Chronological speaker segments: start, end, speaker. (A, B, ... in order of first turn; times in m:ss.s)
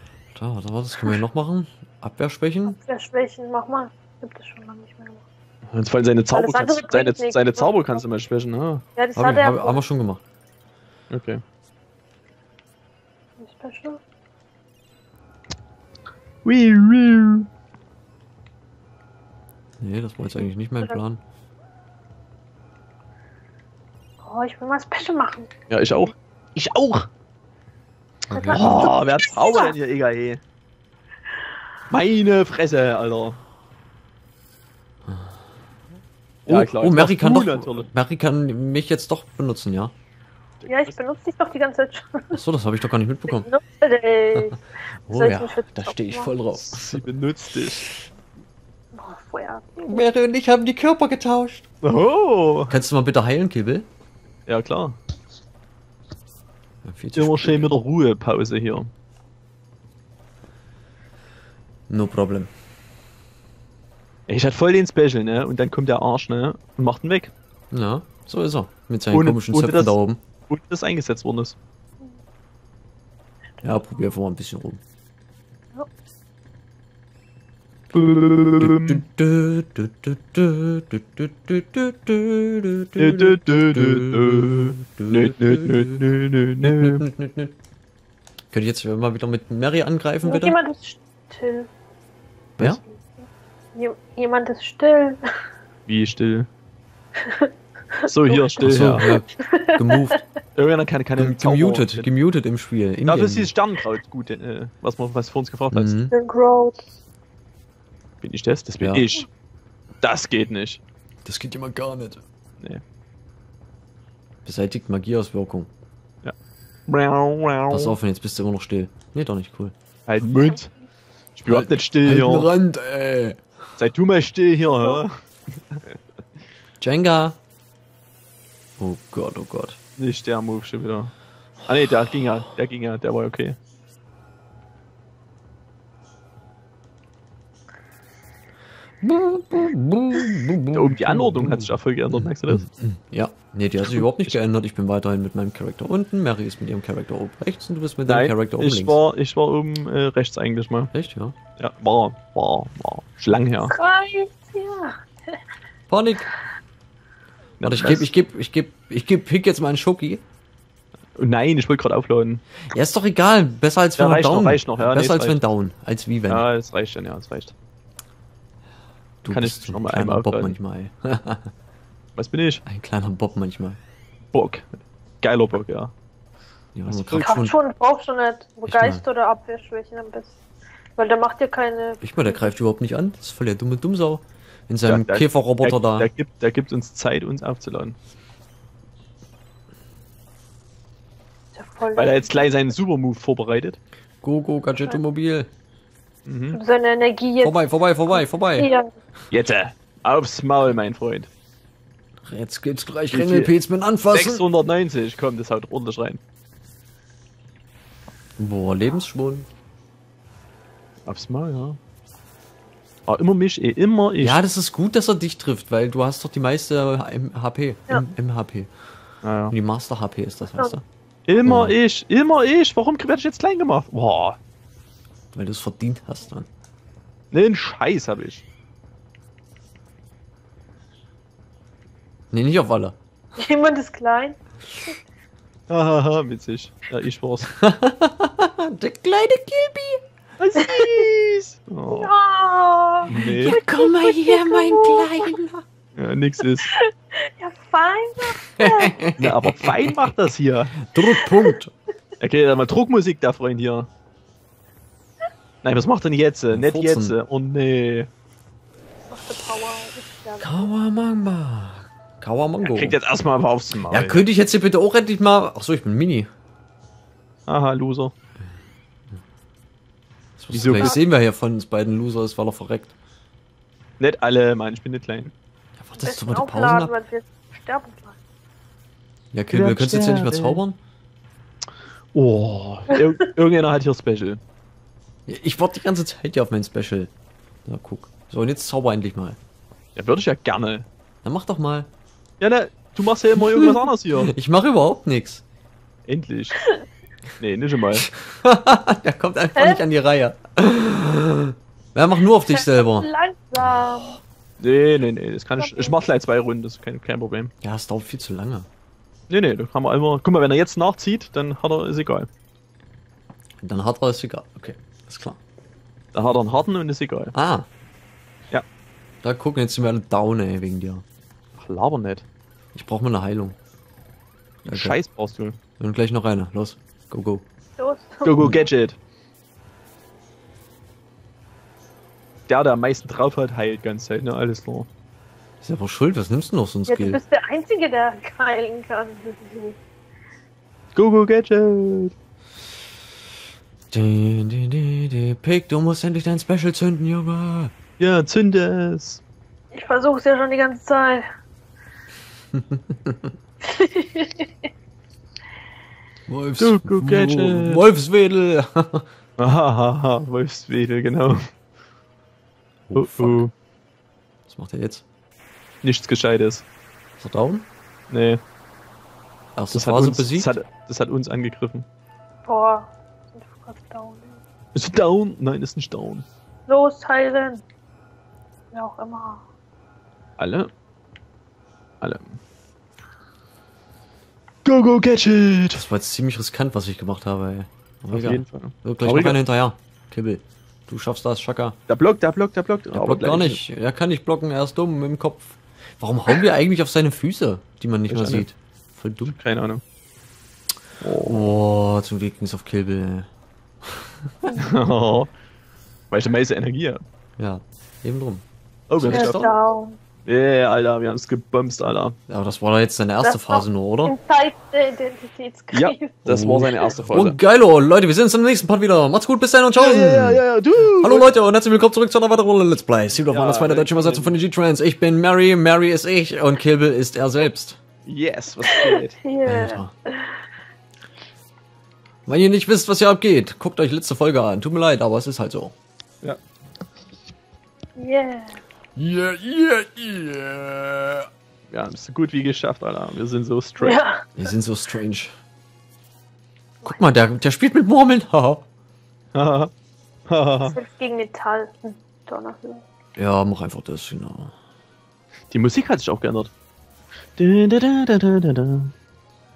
0:00.3-0:02.8 A
0:02.7-0:05.2 B
0:05.7-0:08.8 C
0:06.3-0:08.0 B
0:09.0-0:09.8 B
0:09.2-0:10.2 A
0:11.1-0:11.4 C
0:13.4-0:14.0 B
0:16.4-0:17.5 C
0:19.8-0:21.2 A
0:24.2-0:25.5 B
0:25.7-0:27.1 C
0:28.3-0:29.7 B
0:28.3-0:28.9 A
0:28.5-0:30.4 C
0:31.9-0:33.4 C
0:35.1-0:35.4 A
0:36.4-0:37.9 C
0:36.5-0:39.9 A
0:40.6-0:41.0 C
0:40.6-0:42.4 B
0:42.3-0:43.5 A
0:43.3-0:46.3 B
0:45.1-0:47.0 A
0:46.5-0:47.9 C
0:48.9-0:50.1 B
0:49.8-0:51.6 A
0:51.8-0:52.8 C
0:52.7-0:53.9 A
0:54.5-0:55.0 C
0:56.8-0:57.8 A
0:57.1-0:58.9 C
1:01.9-1:02.5 A
1:04.3-1:07.3 C
1:07.7-1:10.2 A
1:09.1-1:09.9 C
1:10.5-1:11.6 C
1:13.6-1:14.8 A
1:17.9-1:19.0 C
1:18.6-1:26.1 A
1:23.0-1:27.0 C
1:26.6-1:27.5 A
1:28.5-1:30.6 A
1:30.2-1:31.7 B
1:32.6-1:35.2 B
1:35.9-1:36.5 C
1:37.2-1:40.2 B
1:38.0-1:39.1 C
1:38.6-1:40.2 A
1:40.6-1:42.1 C
1:41.2-1:43.5 A
1:43.0-1:45.9 C
1:45.7-1:46.1 A
1:46.1-1:46.8 B
1:48.2-1:49.3 C
1:48.8-1:49.2 A
1:50.0-1:50.8 C
1:51.2-1:52.2 A
1:54.4-1:55.7 A
1:56.9-1:58.0 C
1:57.7-1:59.7 A
2:00.1-2:00.7 C
2:01.4-2:02.5 C
2:01.5-2:03.5 A
2:03.8-2:05.1 C
2:06.8-2:07.4 A
2:08.8-2:09.8 A
2:10.0-2:11.1 C
2:11.6-2:13.6 C
2:19.0-2:29.0 A
2:20.7-2:22.6 C
2:23.8-2:24.3 C
2:28.1-2:30.9 C
2:30.9-2:31.3 A
2:31.6-2:33.7 C
2:33.7-2:35.4 B
2:35.9-2:36.3 A
2:37.6-2:40.2 A
2:37.6-2:38.1 C
2:41.2-2:42.4 C
2:42.6-2:46.4 A
2:44.0-2:45.4 C
2:46.3-2:47.5 C
2:49.2-2:51.5 A
2:49.3-2:50.6 C
2:52.2-2:52.6 C
2:52.6-2:53.8 A
2:54.3-2:54.7 C
2:55.2-2:55.9 C
2:56.7-2:57.6 A
2:56.9-2:57.4 C
2:57.2-3:00.4 B
2:58.7-2:59.0 A
3:01.0-3:02.6 B
3:02.0-3:06.1 A
3:04.8-3:08.0 C
3:11.5-3:12.5 B
3:11.9-3:13.8 C
3:14.2-3:15.5 A
3:16.2-3:16.6 C
3:16.5-3:18.9 B
3:17.4-3:18.7 A
3:19.3-3:21.3 C
3:22.2-3:24.4 A
3:23.1-3:23.5 C
3:24.1-3:26.2 C
3:28.4-3:29.5 A
3:31.0-3:31.8 C
3:33.1-3:34.4 C
3:34.2-3:38.7 A
3:39.2-3:39.5 C
3:39.5-3:40.8 A
3:41.3-3:44.4 C
3:41.4-3:41.8 A
3:45.3-3:46.5 A
3:47.3-3:48.4 C
3:52.3-3:53.0 A
3:53.4-3:54.4 B
3:55.7-3:57.5 C
3:57.6-4:00.0 A
4:00.4-4:02.1 C
4:00.5-4:01.0 B
4:01.9-4:05.4 B
4:03.0-4:03.6 C
4:03.1-4:05.6 A
4:06.0-4:06.7 C
4:06.7-4:09.1 B
4:08.6-4:10.0 A
4:09.2-4:10.8 C
4:10.8-4:11.7 A
4:11.0-4:11.6 B
4:12.2-4:13.9 C
4:15.6-4:18.1 C
4:16.5-4:17.2 A
4:19.1-4:20.7 B
4:20.4-4:23.0 A
4:22.6-4:24.2 C
4:23.9-4:26.3 A
4:27.5-4:28.1 C
4:30.4-4:32.9 A
4:30.5-4:31.0 C
4:30.6-4:31.0 B
4:34.0-4:35.3 C
4:35.8-4:37.0 A
4:36.0-4:38.2 B
4:39.3-4:40.8 A
4:39.5-4:40.6 C
4:42.1-4:44.4 C
4:45.3-4:47.1 A
4:47.6-4:49.4 A
4:50.0-4:50.8 C
4:51.2-4:51.9 A
4:52.4-4:54.3 C
4:53.4-4:55.4 A
4:56.1-4:56.6 C
4:57.4-4:58.1 C
4:58.1-5:04.1 A
4:59.5-4:59.8 B
5:02.4-5:04.2 B
5:04.6-5:07.5 C
5:05.6-5:06.0 B
5:07.6-5:08.7 A
5:09.3-5:12.3 C
5:13.6-5:15.4 A
5:16.1-5:17.3 C
5:17.3-5:17.7 A
5:19.2-5:21.0 A
5:21.6-5:22.2 C
5:22.7-5:23.6 A
5:24.6-5:25.6 C
5:24.7-5:25.0 A
5:25.8-5:27.4 A
5:27.8-5:28.6 B
5:28.2-5:29.0 C
5:32.5-5:34.9 C
5:35.6-5:37.2 A
5:36.9-5:39.8 B
5:40.9-5:42.1 C
5:43.9-5:47.7 A
5:48.0-5:49.2 C
5:49.7-5:51.3 B
5:52.5-5:53.2 A
5:53.7-5:54.5 B
5:56.3-5:59.0 A
5:56.6-5:57.9 C
5:59.4-6:01.4 C
6:02.9-6:03.4 A
6:02.9-6:03.5 C
6:04.5-6:05.0 A
6:05.8-6:06.6 C
6:07.2-6:07.7 A
6:08.1-6:08.4 C
6:09.6-6:10.5 A
6:09.7-6:11.8 C
6:12.4-6:14.4 B
6:14.7-6:16.3 C
6:16.7-6:17.6 B
6:18.7-6:19.4 B
6:20.4-6:20.7 C
6:22.0-6:22.4 C
6:24.6-6:25.8 C
6:25.7-6:31.8 A
6:28.1-6:29.4 C
6:31.9-6:33.6 C
6:32.9-6:39.4 A
6:38.1-6:38.5 C
6:39.2-6:39.8 C
6:41.0-6:41.5 C
6:41.2-6:43.3 A
6:43.8-6:44.3 A
6:44.5-6:45.3 C
6:46.1-6:47.0 C
6:47.4-6:48.4 A
6:48.9-6:49.5 C
6:49.0-6:49.5 A
6:49.1-6:50.0 B
6:50.2-6:52.2 C
6:52.3-6:54.1 A
6:53.2-6:56.2 B
6:55.7-6:57.4 C
6:56.2-7:00.4 A
6:59.7-7:01.3 C
7:01.0-7:07.8 A
7:03.1-7:04.4 C
7:08.0-7:09.2 C
7:08.7-7:10.4 B
7:09.4-7:09.9 A
7:12.2-7:15.7 A
7:18.0-7:18.6 B
7:19.0-7:21.3 A
7:21.7-7:24.0 C
7:23.8-7:24.2 B
7:24.4-7:25.3 A
7:26.8-7:28.6 A
7:29.3-7:29.7 C
7:30.3-7:30.8 C
7:30.6-7:32.8 B
7:33.2-7:34.5 A
7:35.5-7:36.5 C
7:37.4-7:38.9 C